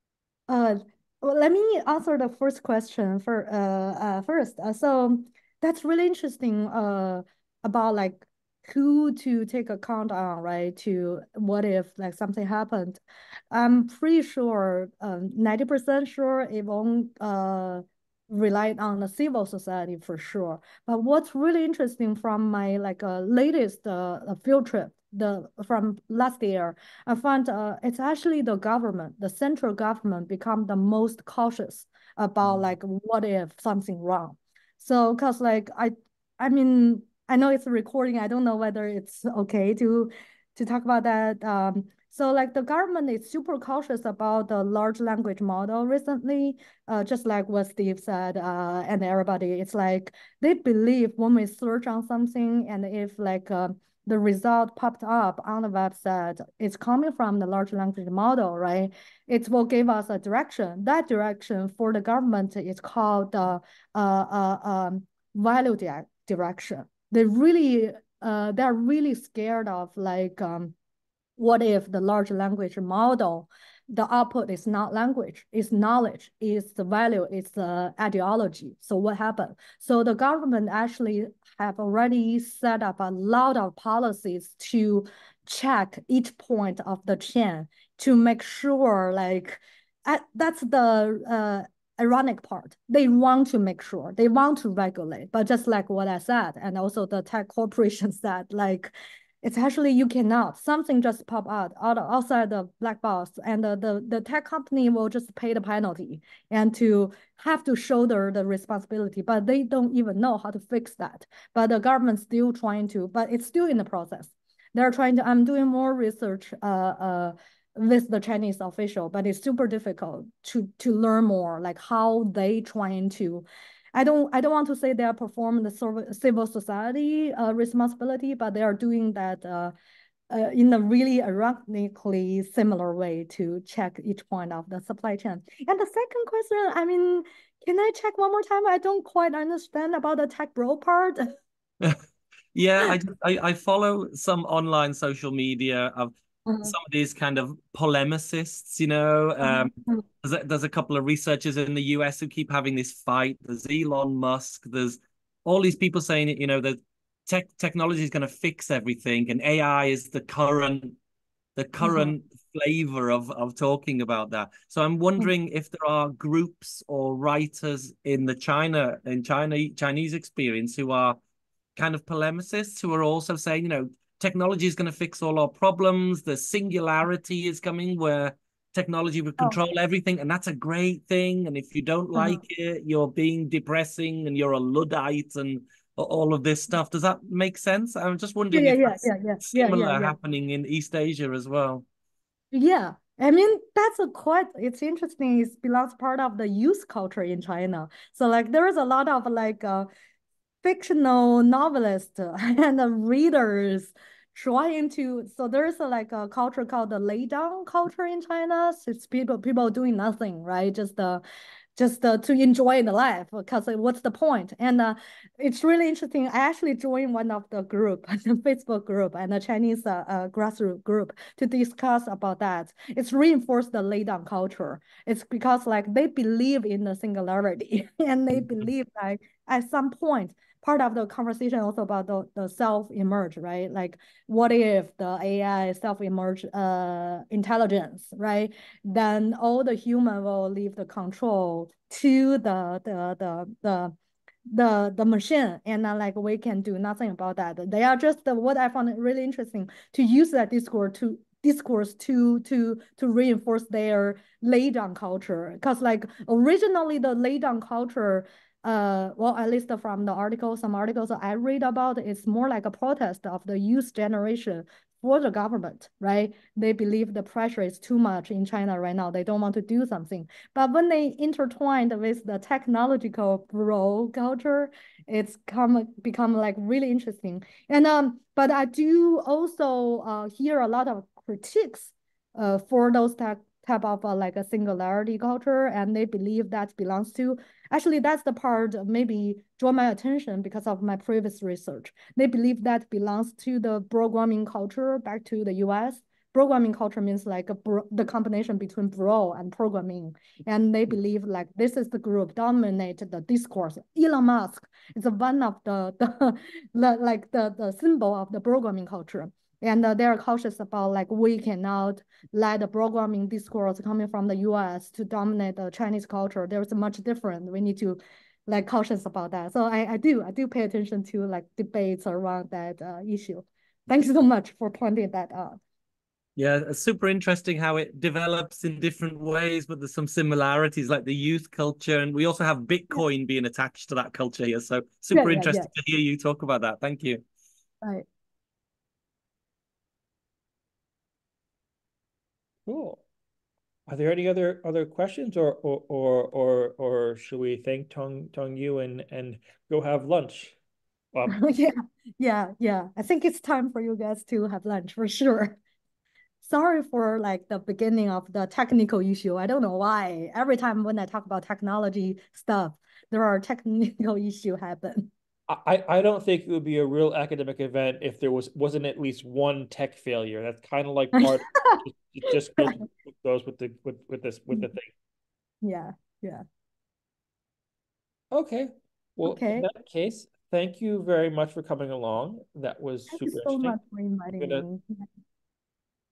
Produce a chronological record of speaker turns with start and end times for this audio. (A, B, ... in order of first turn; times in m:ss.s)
0:00.5-1:10.7 A
1:11.4-2:09.7 A
2:10.3-2:21.3 A
2:22.5-2:41.0 B
2:26.5-2:26.7 A
2:29.4-2:30.0 A
2:41.6-2:51.2 B
2:41.8-2:42.1 A
2:51.8-3:11.8 B
3:02.1-3:02.4 A
3:08.5-3:10.2 A
3:12.5-3:19.9 A
3:20.6-3:31.2 A
3:31.8-4:03.9 A
4:04.5-5:25.6 A
5:26.4-5:37.2 B
5:35.1-5:35.7 A
5:42.7-5:43.0 C
5:43.9-5:50.6 C
5:51.3-5:55.6 A
5:56.4-6:05.1 A
6:05.5-6:14.9 C
6:11.2-6:11.8 A
6:15.6-6:16.4 A
6:18.3-6:23.8 C
6:19.2-6:19.7 A
6:23.1-6:25.1 A
6:24.4-6:24.7 C